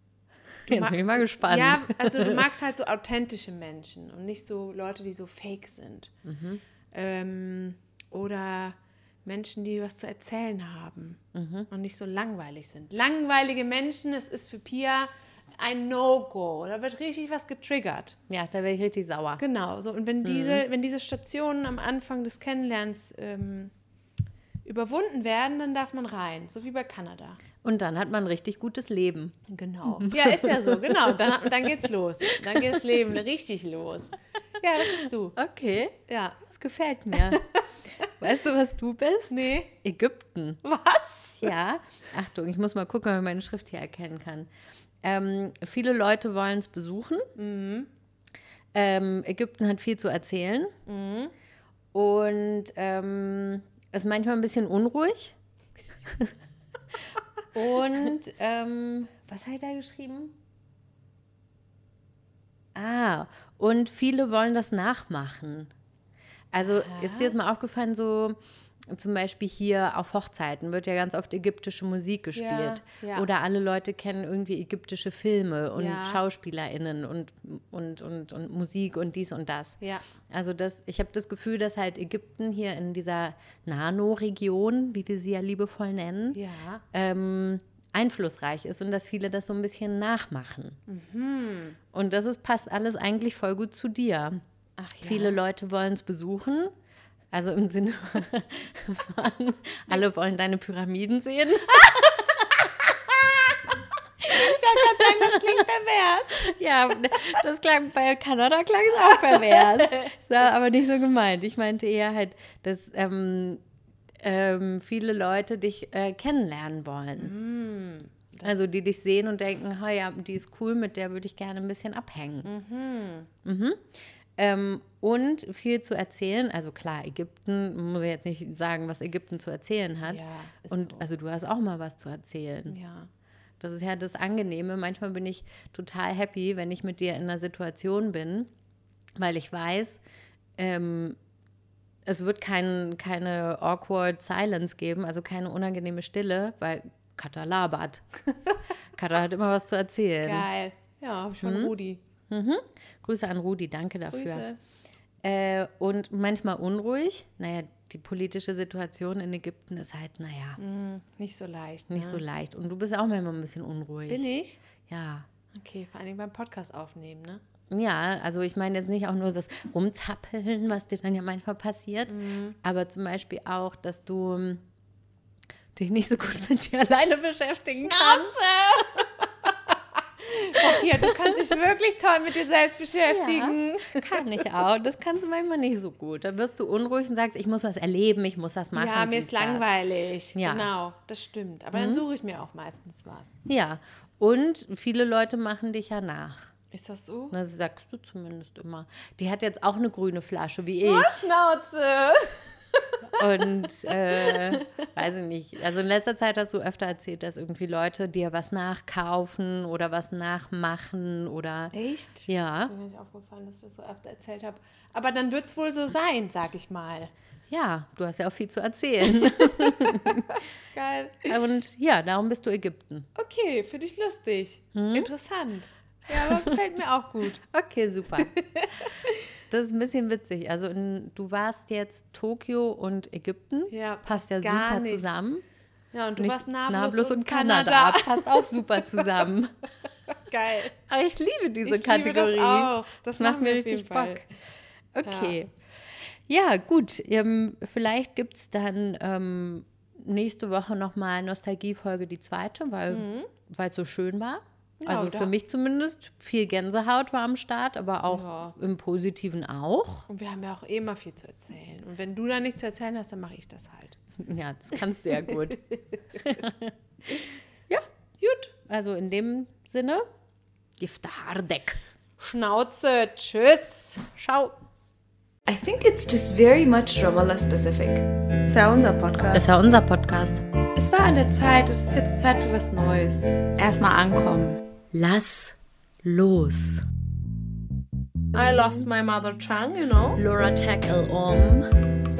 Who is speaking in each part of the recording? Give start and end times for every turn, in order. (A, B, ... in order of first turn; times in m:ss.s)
0:00.7-0:02.4 A
0:00.7-0:06.1 B
0:06.2-0:06.6 A
0:06.9-0:18.2 B
0:11.3-0:11.7 A
0:18.3-0:19.4 A
0:19.4-0:23.7 B
0:20.2-0:20.6 A
0:24.6-0:27.4 B
0:27.6-0:29.4 A
0:29.5-0:35.4 B
0:30.0-0:31.1 A
0:32.3-0:32.6 A
0:35.4-0:37.4 A
0:36.1-0:36.4 B
0:37.1-0:37.6 B
0:38.2-0:40.6 A
0:39.3-0:39.7 B
0:40.6-0:41.5 B
0:41.4-0:44.5 A
0:45.0-0:47.3 A
0:47.4-0:47.9 B
0:48.7-0:50.7 A
0:50.9-0:51.3 B
0:51.9-0:55.4 A
0:57.5-1:00.3 A
1:02.7-1:05.7 A
1:06.5-1:19.8 A
1:06.6-1:07.3 B
1:12.3-1:13.3 B
1:15.8-1:16.2 B
1:20.3-1:26.4 A
1:26.3-1:26.8 B
1:26.9-1:30.8 A
1:30.9-1:31.8 B
1:31.9-1:34.4 A
1:34.8-1:35.4 B
1:35.0-1:36.7 A
1:37.3-1:45.6 A
1:44.3-1:46.6 B
1:46.4-1:53.6 A
1:49.3-1:50.1 B
1:54.2-1:57.3 A
1:57.2-1:58.6 B
1:58.4-2:02.5 A
2:02.4-2:03.3 B
2:03.4-2:12.8 A
2:10.0-2:11.0 B
2:12.7-2:13.1 B
2:13.6-2:18.5 A
2:19.2-2:20.0 A
2:20.6-2:21.2 A
2:22.0-2:28.0 A
2:28.9-2:30.5 A
2:30.2-2:32.0 B
2:31.4-2:31.7 A
2:32.3-2:34.4 A
2:34.1-2:34.6 B
2:35.2-2:40.6 A
2:40.6-2:42.2 B
2:41.9-2:44.2 A
2:44.1-2:44.6 B
2:44.8-2:45.3 A
2:45.5-2:47.4 B
2:47.7-2:54.6 A
2:52.1-2:52.6 B
2:55.7-2:58.3 A
2:57.7-2:59.5 B
3:00.2-3:04.2 B
3:03.1-3:09.7 A
3:08.7-3:13.3 B
3:10.3-3:10.7 A
3:11.7-3:12.0 A
3:13.4-3:16.5 A
3:16.7-3:17.3 B
3:17.3-3:21.3 A
3:20.8-3:23.3 B
3:23.2-3:31.7 A
3:24.1-3:24.8 B
3:31.7-3:37.1 B
3:32.3-3:32.7 A
3:37.5-3:40.4 A
3:39.4-3:40.1 B
3:40.7-3:41.4 B
3:41.2-3:43.1 A
3:43.1-3:47.4 B
3:44.7-3:45.1 A
3:46.1-3:46.5 A
3:47.5-3:48.3 A
3:48.2-3:49.2 B
3:49.5-3:55.4 A
3:53.7-3:55.1 B
3:55.9-3:59.2 B
3:56.2-3:59.5 A
4:00.2-4:00.8 B
4:00.9-4:04.2 A
4:01.6-4:04.2 B
4:04.9-4:20.1 A
4:05.0-4:05.3 B
4:12.9-4:13.3 B
4:14.8-4:15.3 B
4:18.1-4:18.5 B
4:20.1-4:24.0 B
4:24.2-4:25.6 A
4:25.3-4:26.3 B
4:26.2-4:27.1 A
4:28.2-4:28.5 B
4:28.7-4:30.0 A
4:30.8-4:31.8 A
4:32.2-4:34.1 B
4:34.2-4:34.5 A
4:35.5-4:38.0 C
4:38.5-4:39.4 B
4:39.3-4:40.4 A
4:40.7-4:44.6 B
4:44.9-4:46.8 A
4:48.3-4:50.2 B
4:50.2-4:51.7 A